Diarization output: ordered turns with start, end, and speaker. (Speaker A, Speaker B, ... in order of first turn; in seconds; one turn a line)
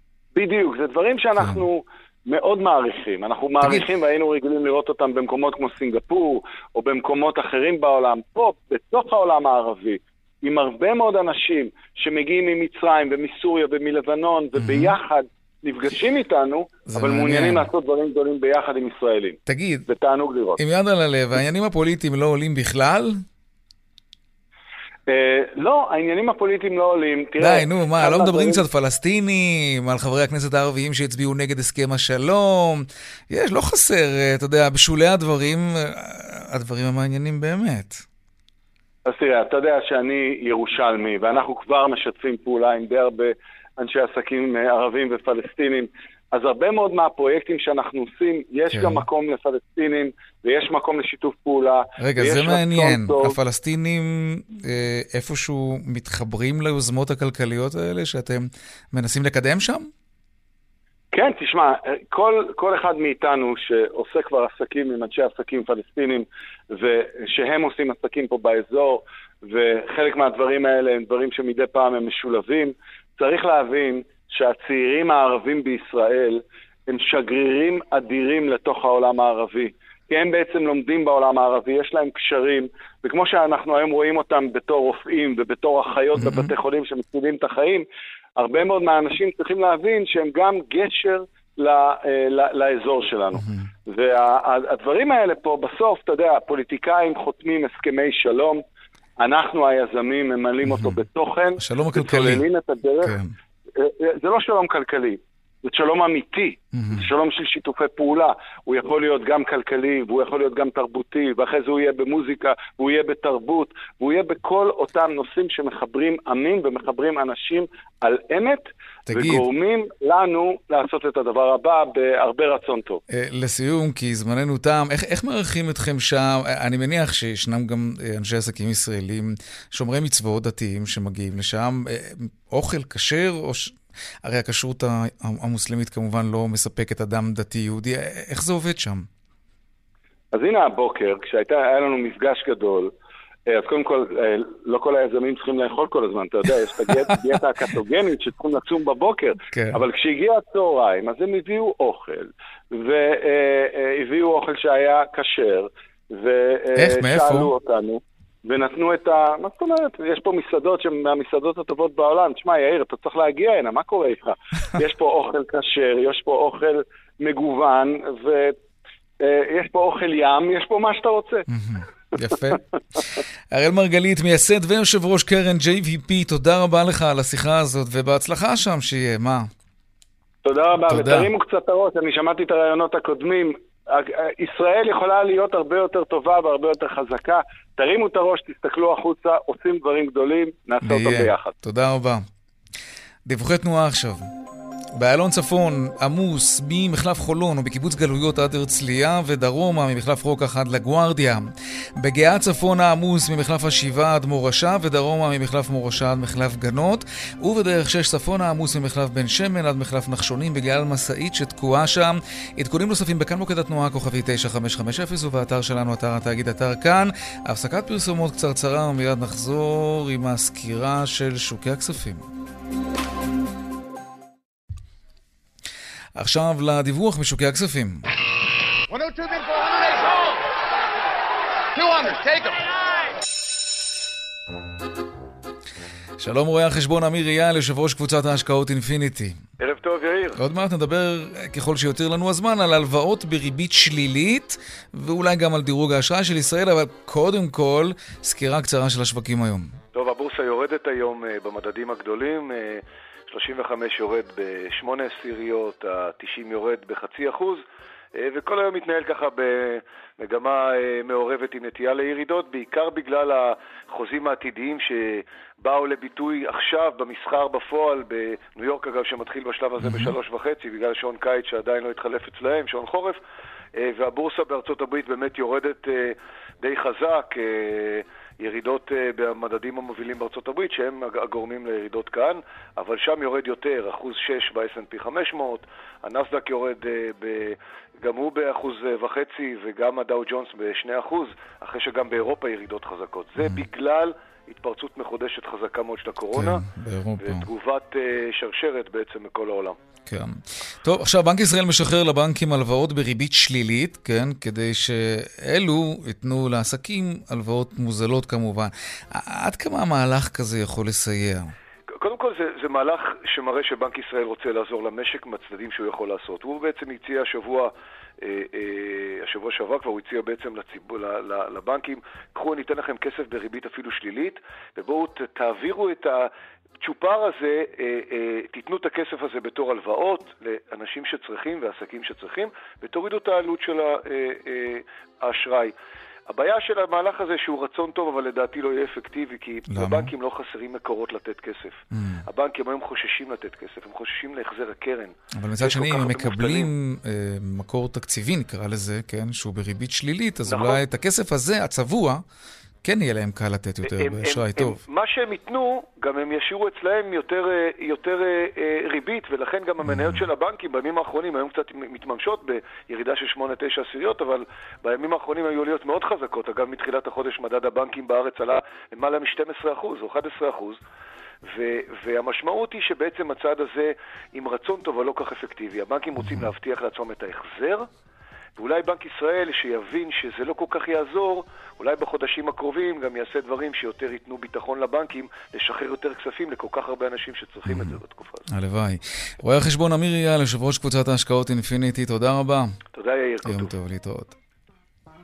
Speaker A: 0.4-20.6
Speaker B: 1.4-1.6
Speaker B: 3.6-3.9
Speaker B: 14.6-15.0
Speaker B: 16.9-17.7
Speaker B: 19.5-19.9
Speaker B: 20.6-23.2
Speaker A: 25.1-28.6
Speaker B: 27.4-38.0
Speaker A: 39.1-53.4
Speaker B: 48.7-49.1
Speaker B: 52.0-59.9
Speaker A: 61.1-87.8
Speaker B: 86.2-86.5
Speaker A: 88.4-98.6
Speaker B: 93.3-93.7
Speaker A: 99.2-103.2
Speaker B: 100.6-101.0
Speaker B: 101.6-102.5
Speaker B: 103.0-103.3
Speaker A: 103.8-123.0
Speaker B: 106.7-107.1
Speaker B: 119.1-119.5
Speaker B: 123.1-139.1
Speaker A: 140.3-142.9
Speaker A: 143.5-168.5
Speaker B: 149.5-149.8
Speaker B: 156.8-157.5
Speaker A: 169.2-171.5
Speaker B: 171.5-179.5
Speaker A: 180.4-191.5
Speaker B: 180.9-181.3
Speaker B: 190.8-192.2
Speaker B: 193.3-194.3
Speaker B: 195.0-201.4
Speaker B: 202.0-222.2
Speaker B: 226.2-228.0
Speaker B: 236.2-239.4
Speaker C: 239.6-240.4
Speaker B: 240.4-249.7
Speaker C: 249.9-257.6
Speaker C: 258.1-273.2
Speaker B: 269.8-270.1
Speaker C: 273.8-296.6
Speaker B: 296.3-297.5
Speaker C: 297.2-299.8
Speaker B: 300.1-311.5
Speaker C: 312.0-326.3
Speaker C: 326.8-335.8
Speaker C: 336.3-346.7
Speaker B: 339.7-340.1
Speaker B: 341.9-342.2
Speaker B: 345.4-352.2
Speaker C: 350.5-350.8
Speaker B: 352.8-354.8
Speaker C: 353.9-370.8
Speaker B: 359.9-360.3
Speaker C: 371.4-377.9
Speaker B: 376.2-376.5
Speaker C: 378.6-388.5
Speaker B: 387.7-388.0
Speaker B: 388.5-392.7
Speaker C: 392.9-393.7
Speaker B: 393.4-394.4